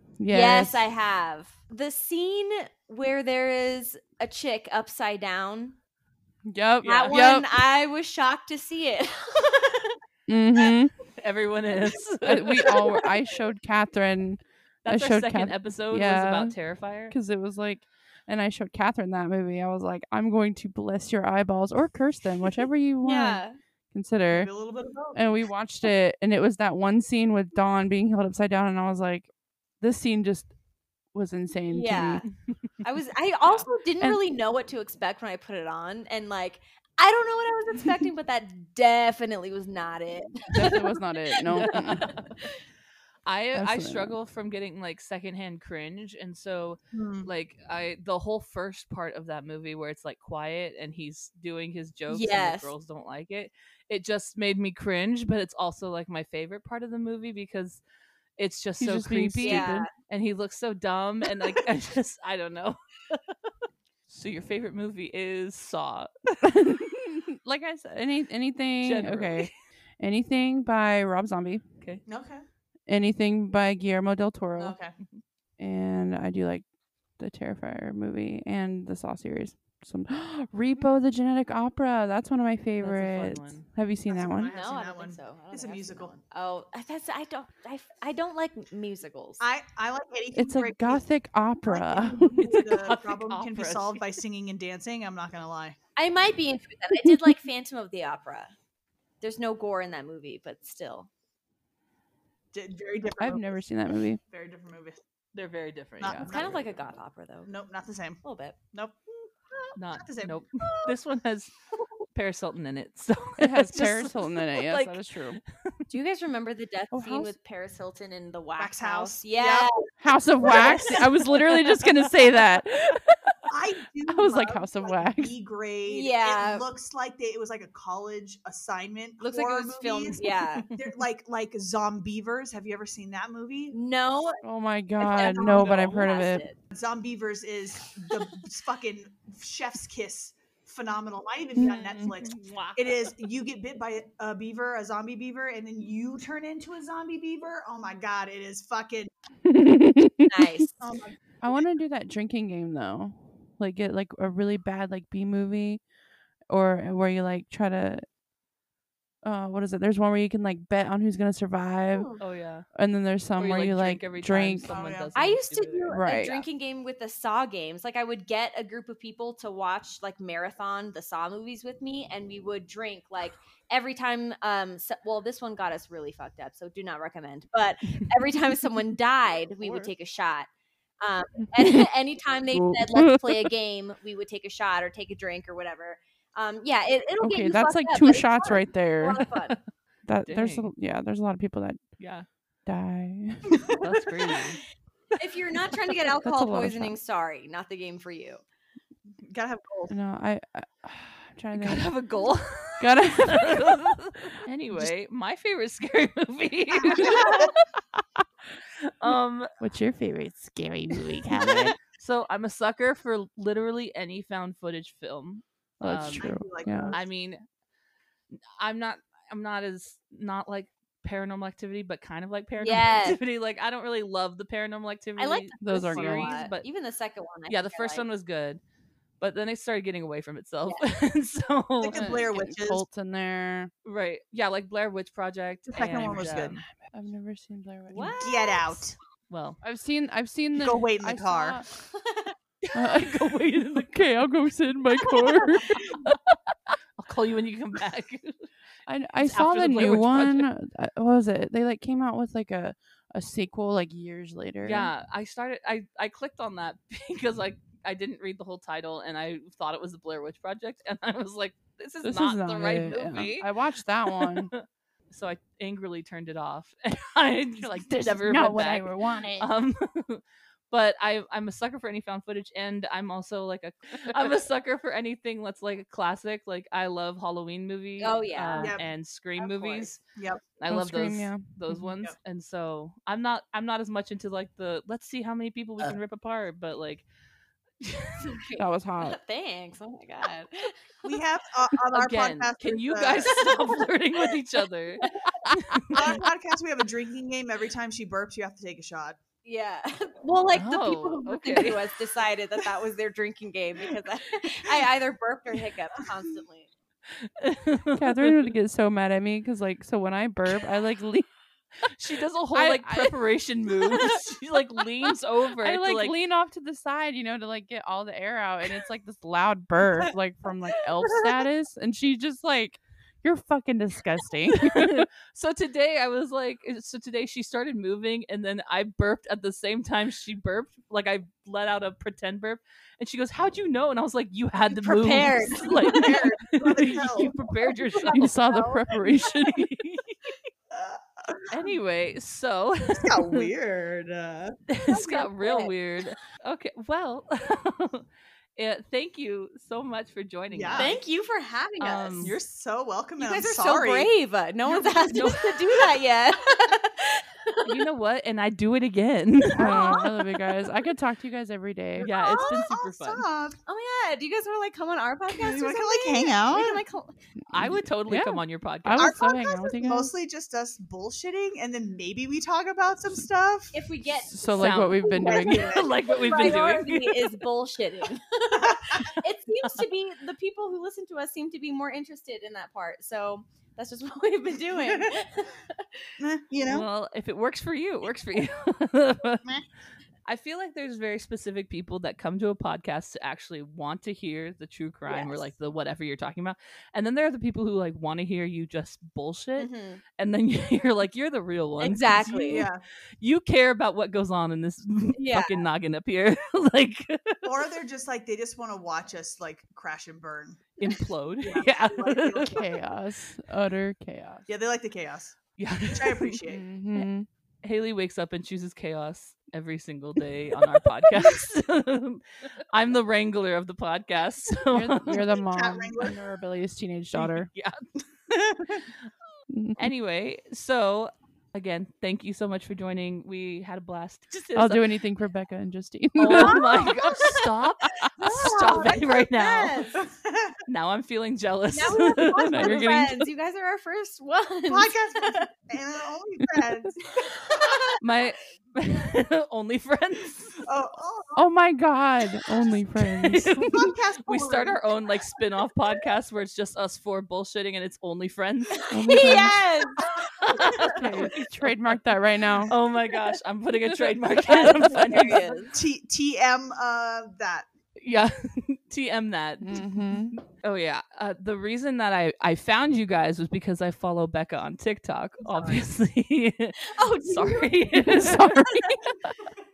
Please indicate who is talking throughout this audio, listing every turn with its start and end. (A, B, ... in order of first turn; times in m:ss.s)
0:00.2-0:00.8 A
0:00.3-0:05.8 B
0:06.5-0:07.5 A
0:06.8-0:07.1 C
0:06.8-0:10.0 B
0:10.3-0:10.9 A
0:11.2-0:12.9 C
0:12.2-0:16.5 A
0:14.8-0:17.1 C
0:17.1-0:24.5 A
0:23.0-0:23.6 B
0:24.3-0:25.2 D
0:25.1-0:29.3 A
0:29.8-0:30.5 A
0:31.1-0:32.2 A
0:31.7-0:32.3 B
0:32.8-0:42.6 B
0:40.5-0:42.2 A
0:41.6-0:42.3 C
0:43.2-0:57.8 C
0:43.5-0:44.1 A
0:46.9-0:47.3 D
0:52.1-0:52.7 B
0:58.4-1:03.3 C
0:58.8-0:59.7 A
0:59.4-0:59.9 B
1:04.1-1:06.5 C
1:06.4-1:11.6 A
1:08.8-1:09.5 C
1:12.0-1:12.4 D
1:12.9-1:14.8 A
1:14.6-1:14.9 D
1:15.6-1:16.6 A
1:17.2-1:24.5 A
1:22.8-1:23.6 C
1:24.1-1:26.2 D
1:24.4-1:29.4 B
1:29.4-1:31.0 D
1:30.4-1:32.3 A
1:31.6-1:35.8 D
1:32.3-1:34.0 C
1:36.0-1:38.5 B
1:37.0-1:37.3 A
1:39.2-1:41.1 B
1:42.5-1:43.6 D
1:43.2-1:44.2 A
1:44.3-1:45.0 D
1:45.3-1:46.4 C
1:46.0-1:46.7 D
1:46.2-1:47.5 B
1:47.4-1:49.0 D
1:48.2-1:48.6 B
1:49.7-1:51.5 C
1:49.9-1:50.9 D
1:52.1-1:55.1 C
1:53.4-1:55.4 A
1:55.9-1:59.9 B
1:56.9-1:57.3 A
1:58.6-1:59.7 D
2:00.0-2:03.0 A
2:00.4-2:01.0 D
2:01.5-2:02.0 C
2:03.5-2:13.8 D
2:04.1-2:05.3 A
2:05.9-2:06.6 B
2:09.2-2:10.7 B
2:13.7-2:14.4 B
2:14.4-2:16.4 A
2:15.0-2:16.6 B
2:15.2-2:16.1 D
2:16.7-2:29.1 D
2:21.6-2:22.2 A
2:22.2-2:23.1 C
2:29.4-2:30.6 A
2:30.3-2:30.8 B
2:30.8-2:31.7 D
2:31.4-2:35.8 A
2:36.5-2:38.0 A
2:39.2-2:42.1 A
2:41.9-2:42.2 B
2:42.2-2:42.7 C
2:42.7-2:44.7 A
2:43.4-2:45.9 C
2:44.6-2:45.1 D
2:45.1-3:00.5 B
2:45.9-2:46.4 A
2:59.6-2:59.9 C
3:01.0-3:09.6 B
3:01.6-3:01.8 A
3:02.5-3:03.5 A
3:07.2-3:09.4 A
3:10.0-3:11.9 A
3:10.3-3:10.6 C
3:12.0-3:12.2 C
3:12.6-3:13.8 A
3:13.8-3:14.6 C
3:15.2-3:18.4 B
3:16.2-3:17.0 A
3:19.2-3:19.9 D
3:19.9-3:21.9 A
3:21.5-3:27.7 C
3:22.8-3:23.9 A
3:26.8-3:27.5 D
3:28.8-3:29.5 C
3:29.6-3:31.8 A
3:31.9-3:36.3 C
3:35.8-3:36.9 A
3:36.2-3:37.1 D
3:36.9-3:37.4 C
3:38.6-3:46.6 C
3:42.6-3:43.2 B
3:45.2-3:48.1 B
3:45.6-3:46.3 A
3:47.5-3:48.6 C
3:49.2-3:52.1 C
3:51.8-3:52.8 D
3:51.9-3:53.7 A
3:53.8-3:56.6 C
3:55.7-3:56.6 D
3:56.8-3:58.2 A
3:57.9-3:58.8 B
3:58.2-3:59.0 D
3:59.3-3:59.6 C
3:59.6-4:01.6 A
4:00.5-4:01.6 D
4:01.8-4:02.4 B
4:02.6-4:04.0 C
4:02.7-4:06.1 A
4:05.7-4:08.5 C
4:08.9-4:14.9 A
4:09.2-4:10.5 C
4:14.6-4:23.5 C
4:22.0-4:24.5 A
4:24.0-4:40.0 C
4:27.6-4:29.5 A
4:38.0-4:38.8 B
4:38.6-4:40.4 D
4:40.6-4:47.0 C
4:40.7-4:41.9 A
4:47.8-4:48.2 C
4:48.2-4:51.2 B
4:48.6-4:49.2 A
4:51.0-4:53.5 D
4:51.9-4:56.0 C
4:55.0-4:55.3 B
4:55.9-4:59.2 D
4:59.4-5:06.7 B
5:00.5-5:01.9 C
5:07.1-5:08.5 C
5:08.0-5:11.3 A
5:11.8-5:16.1 C
5:12.5-5:13.2 A
5:15.6-5:25.1 A
5:24.6-5:38.3 C
5:34.7-5:36.2 B
5:35.6-5:37.4 D
5:38.0-5:38.8 B
5:38.1-5:39.8 A
5:39.1-5:40.3 C
5:40.7-5:41.5 D
5:41.5-5:43.5 C
5:42.9-5:44.6 D
5:44.7-5:48.0 C
5:44.9-5:45.7 B
5:48.6-5:51.0 C
5:50.5-5:51.0 D
5:50.7-5:52.3 B
5:51.8-5:52.4 C
5:52.2-5:54.1 D
5:53.2-5:57.8 B
5:54.6-5:55.3 D
5:55.1-5:55.8 C
5:57.6-5:59.8 C
5:59.5-6:00.5 B
5:59.6-6:02.1 A
6:02.0-6:03.6 D
6:02.0-6:03.2 C
6:03.6-6:07.1 B
6:05.3-6:06.8 D
6:07.5-6:09.2 C
6:07.6-6:10.1 A
6:09.0-6:13.7 D
6:13.7-6:26.2 B
6:14.3-6:15.7 A
6:14.5-6:17.3 C
6:15.2-6:16.5 D
6:18.5-6:19.1 D
6:24.7-6:25.2 D
6:26.2-6:26.9 D
6:26.6-6:29.4 C
6:30.2-6:42.7 C
6:35.1-6:35.5 B
6:39.6-6:40.0 B
6:41.8-6:42.7 B
6:42.4-6:42.8 D
6:43.2-6:47.5 C
6:45.2-6:45.6 B
6:47.4-6:50.7 D
6:50.8-6:52.6 C
6:51.4-6:52.8 D
6:52.5-6:54.5 A
6:54.5-6:56.6 D
6:55.6-6:56.4 C
6:56.4-6:57.3 A
6:57.6-7:05.2 C
7:04.7-7:07.5 A
7:05.1-7:06.2 D
7:07.1-7:07.8 C
7:08.3-7:08.9 D
7:09.5-7:09.8 A
7:09.8-7:14.9 C
7:14.5-7:16.8 A
7:16.2-7:19.9 C
7:17.0-7:17.3 B
7:18.2-7:20.0 B
7:20.0-7:20.6 D
7:20.7-7:23.3 C
7:21.7-7:25.5 B
7:22.5-7:22.8 A
7:24.7-7:27.7 D
7:27.2-7:28.0 B
7:28.0-7:30.6 C
7:30.6-7:31.4 D
7:31.4-7:33.5 A
7:33.0-7:38.8 C
7:33.5-7:34.9 D
7:38.8-7:40.8 B
7:38.9-7:39.6 A
7:40.0-7:41.9 C
7:40.7-7:42.7 A
7:42.7-7:45.6 C
7:44.3-7:45.7 B
7:45.7-7:47.7 D
7:48.0-7:58.6 C
7:49.6-7:50.4 A
7:55.5-7:55.8 B
7:56.8-7:58.1 B
7:58.0-7:59.1 A
7:58.7-7:59.0 B